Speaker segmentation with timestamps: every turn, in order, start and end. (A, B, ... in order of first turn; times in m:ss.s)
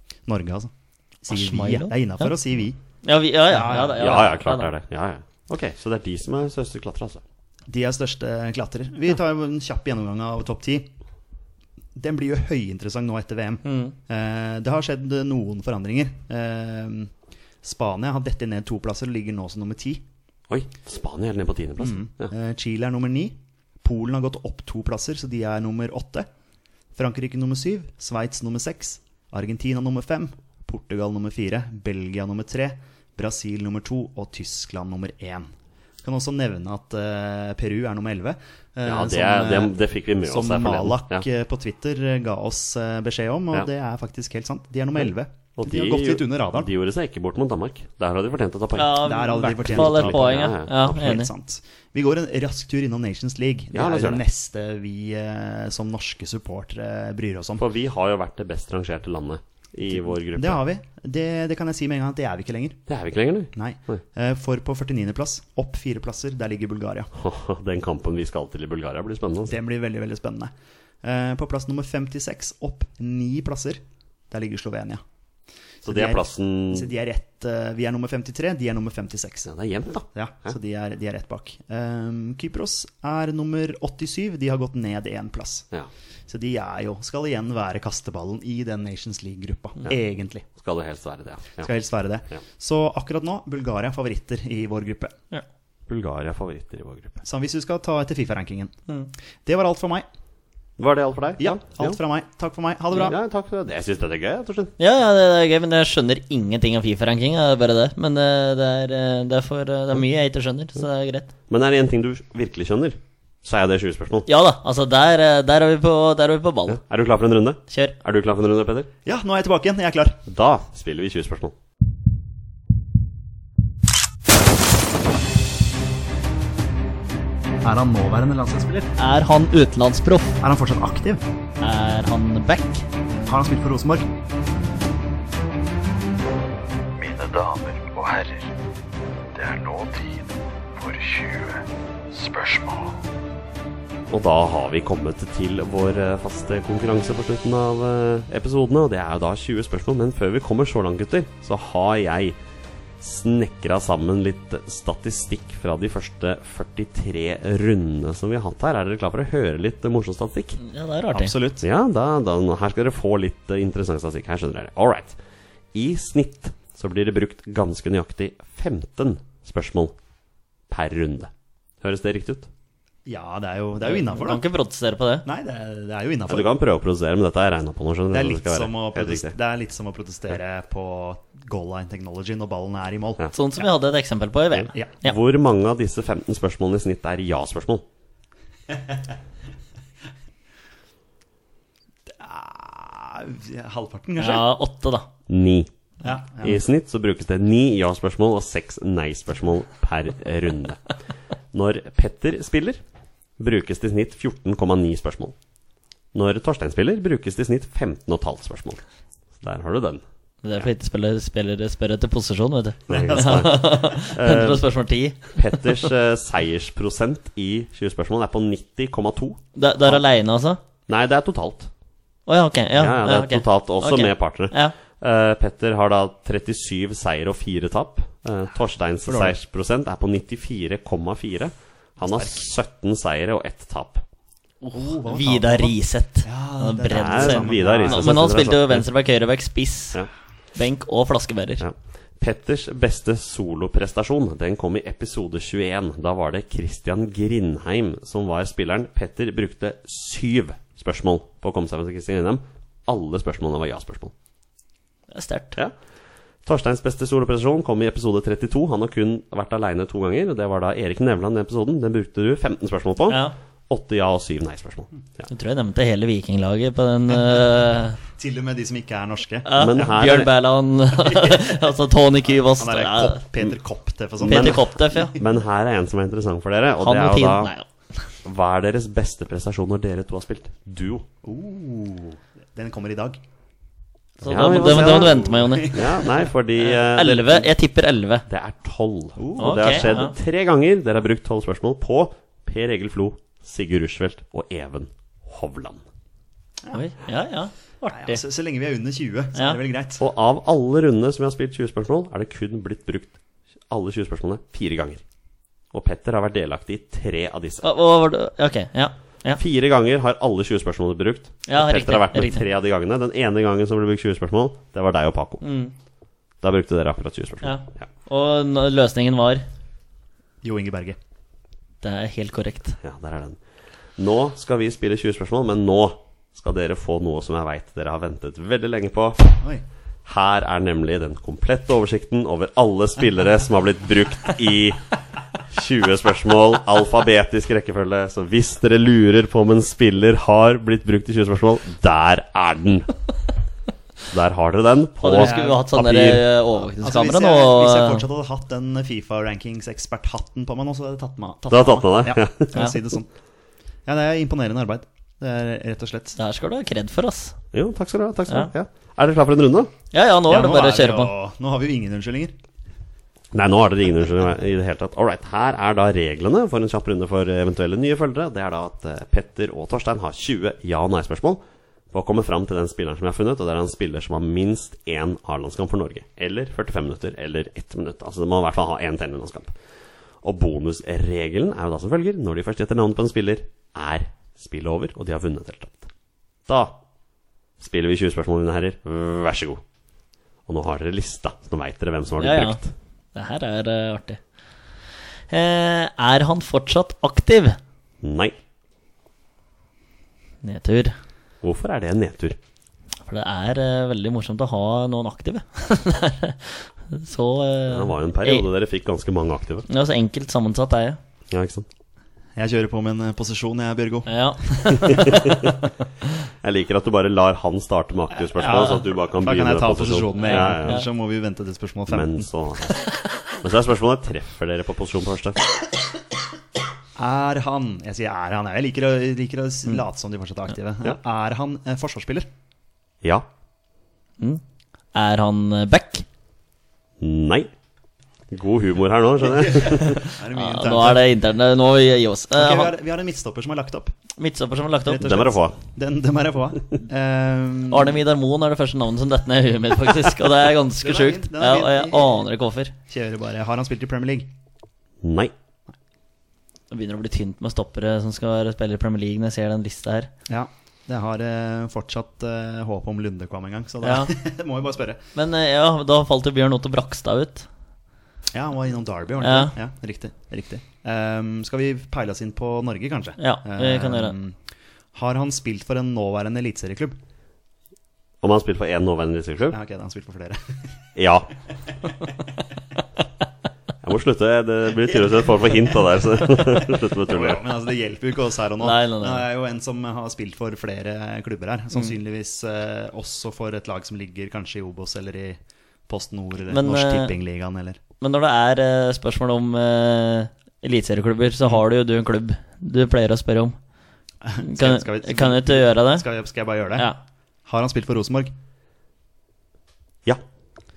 0:00.3-0:02.8 A
0:01.3-0:02.3 B
0:03.0-0:04.7 B
0:03.5-0:04.4 A
0:03.6-0:07.2 C
0:07.7-0:10.9 A
0:12.0-0:20.0 A
0:13.6-0:14.0 B
0:20.5-0:22.3 C
0:21.8-0:26.3 A
0:27.0-0:35.5 A
0:36.0-0:46.7 A
0:38.8-0:41.2 C
0:45.6-0:51.0 C
0:48.8-0:51.3 B
0:49.0-0:57.6 A
0:53.7-0:54.2 C
0:57.6-1:00.6 C
0:59.9-1:02.8 A
1:02.9-1:04.0 C
1:03.6-1:07.1 A
1:07.2-1:09.6 C
1:09.5-1:15.0 A
1:15.8-1:19.5 A
1:15.8-1:16.9 C
1:19.5-1:20.6 C
1:20.1-1:25.7 A
1:26.3-1:30.5 A
1:30.6-1:31.7 C
1:31.6-1:35.2 A
1:35.9-1:37.2 C
1:37.2-1:38.7 A
1:39.4-1:40.1 A
1:40.8-1:42.0 C
1:41.4-1:43.2 A
1:43.0-1:44.8 C
1:44.8-1:51.3 B
1:51.5-1:54.3 C
1:54.3-1:56.8 B
1:56.7-1:58.9 C
1:57.7-1:58.0 B
1:59.0-2:00.2 A
2:00.3-2:01.5 C
2:07.6-2:08.9 A
2:09.0-2:10.4 B
2:10.4-2:11.2 A
2:11.6-2:12.9 B
2:13.3-2:14.1 A
2:17.0-2:18.5 D
2:19.3-2:23.0 D
2:24.1-2:32.4 C
2:33.0-2:40.6 C
2:40.6-2:41.3 B
2:41.1-2:41.6 A
2:41.6-2:45.2 C
2:45.7-2:49.9 C
2:50.7-2:51.3 C
2:51.8-2:52.5 C
2:53.1-2:54.4 A
2:53.8-2:55.3 B
2:55.2-2:56.5 A
2:56.3-2:59.4 C
2:58.1-3:03.3 A
3:03.3-3:05.2 B
3:04.5-3:07.8 C
3:08.7-3:09.0 A
3:12.1-3:14.5 A
3:14.2-3:15.1 B
3:15.3-3:15.7 C
3:16.0-3:16.6 A
3:16.4-3:20.9 C
3:21.5-3:22.8 C
3:23.4-3:25.3 C
3:26.1-3:28.8 C
3:29.4-3:30.0 C
3:30.4-3:35.9 B
3:32.9-3:34.6 C
3:35.4-3:40.0 C
3:39.6-3:40.6 B
3:40.9-3:41.7 C
3:42.3-3:44.8 B
3:42.8-3:54.0 C
3:49.1-3:49.4 A
3:52.0-3:52.4 A
3:54.6-4:00.0 B
3:54.7-3:58.2 A
3:56.9-3:58.8 C
4:00.6-4:01.6 B
4:01.6-4:14.1 C
4:15.1-4:15.6 B
4:16.4-4:25.3 C
4:23.1-4:23.4 B
4:25.3-4:28.0 B
4:28.0-4:29.5 A
4:29.4-4:33.2 B
4:29.6-4:30.3 C
4:31.0-4:31.7 A
4:32.2-4:35.2 A
4:34.2-4:35.2 B
4:34.2-4:37.5 C
4:36.8-4:37.7 B
4:38.2-4:41.1 C
4:41.2-4:43.2 A
4:44.2-4:46.2 A
4:44.2-4:45.9 B
4:44.3-4:47.5 C
4:46.6-4:48.3 B
4:48.3-4:55.8 C
4:49.2-4:50.0 A
4:49.4-4:50.1 B
4:56.7-4:58.2 B
4:57.9-5:00.0 A
5:00.0-5:03.2 C
5:03.7-5:05.0 C
5:05.7-5:07.7 C
5:07.6-5:09.4 B
5:09.4-5:15.4 C
5:11.5-5:12.4 B
5:15.4-5:15.7 B
5:16.4-5:17.9 C
5:17.4-5:19.5 B
5:20.4-5:21.0 A
5:21.8-5:22.8 B
5:22.8-5:23.4 C
5:24.0-5:29.4 C
5:30.1-5:34.9 C
5:35.4-5:43.0 C
5:44.1-5:46.3 C
5:45.0-5:48.0 B
5:45.2-5:45.6 A
5:46.8-5:53.1 A
5:51.5-5:52.6 C
5:53.9-5:56.2 A
5:56.2-5:57.4 B
5:57.5-5:59.7 C
5:59.9-6:01.1 B
6:00.3-6:02.3 A
6:03.3-6:19.5 C
6:20.2-6:25.9 C
6:26.5-6:26.8 C
6:27.6-6:29.6 C
6:30.5-6:32.7 C
6:32.2-6:32.6 B
6:33.1-6:34.2 B
6:34.9-6:37.6 B
6:38.0-6:38.4 C
6:40.4-6:41.0 B
6:41.4-6:42.4 C
6:43.0-6:48.5 B
6:47.7-6:49.7 C
6:49.7-6:51.0 B
6:51.3-6:51.7 C
6:52.4-6:54.1 A
6:54.1-6:55.6 B
6:54.9-6:55.6 C
6:56.4-7:00.9 C
6:58.2-7:02.3 A
7:00.2-7:00.8 B
7:01.9-7:05.4 C
7:07.0-7:12.3 A
7:14.9-7:16.0 B
7:17.0-7:17.5 C
7:18.3-7:20.0 C
7:19.2-7:21.1 A
7:20.0-7:22.7 B
7:22.3-7:23.9 A
7:24.2-7:25.1 B
7:24.9-7:28.0 A
7:25.0-7:25.6 C
7:27.7-7:32.7 B
7:30.8-7:32.2 A
7:32.9-7:34.3 A
7:35.0-7:35.3 C
7:36.7-7:40.1 B
7:40.3-7:45.0 A
7:43.8-7:44.1 B
7:45.2-7:47.5 B
7:48.3-7:54.4 A
7:49.2-7:49.6 B
7:53.2-7:54.2 B
7:54.9-7:57.0 A
7:58.2-7:59.6 C
7:59.5-8:00.6 A
8:01.0-8:01.3 C
8:03.8-8:07.4 C
8:06.4-8:17.8 A
8:08.6-8:09.3 B
8:16.5-8:17.2 B
8:18.0-8:23.6 B
8:24.2-8:26.9 A
8:24.4-8:26.0 B
8:27.5-8:28.3 A